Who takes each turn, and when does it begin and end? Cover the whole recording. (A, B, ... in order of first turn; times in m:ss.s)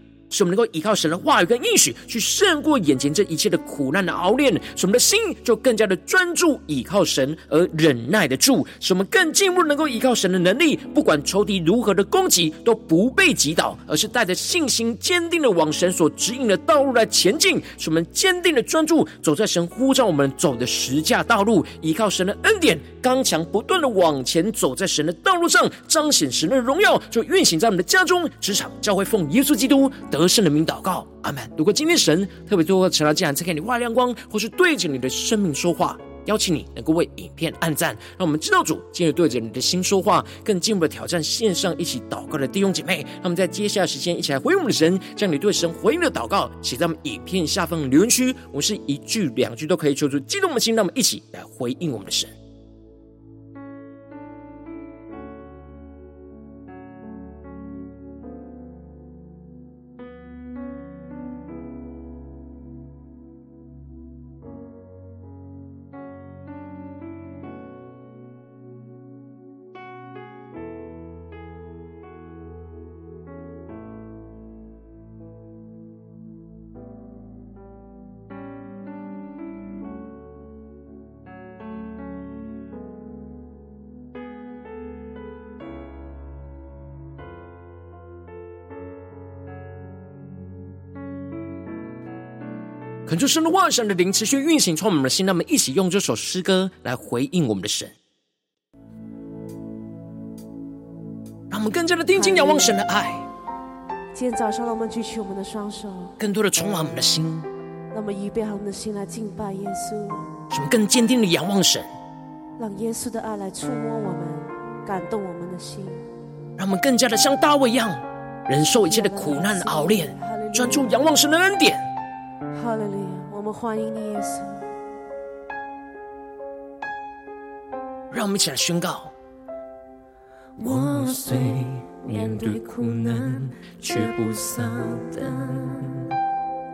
0:00.3-0:52.3 A
1:33.1-1:37.9 A
1:41.5-1:43.3 A
1:42.2-1:42.8 B
1:44.1-1:46.1 B
1:46.2-1:47.5 A
1:47.9-1:50.3 B
1:50.5-1:51.9 A
1:52.6-1:56.0 B
1:56.6-2:01.8 A
1:58.8-2:01.0 B
2:02.5-2:04.7 B
2:08.1-2:09.1 A
2:10.6-2:16.1 C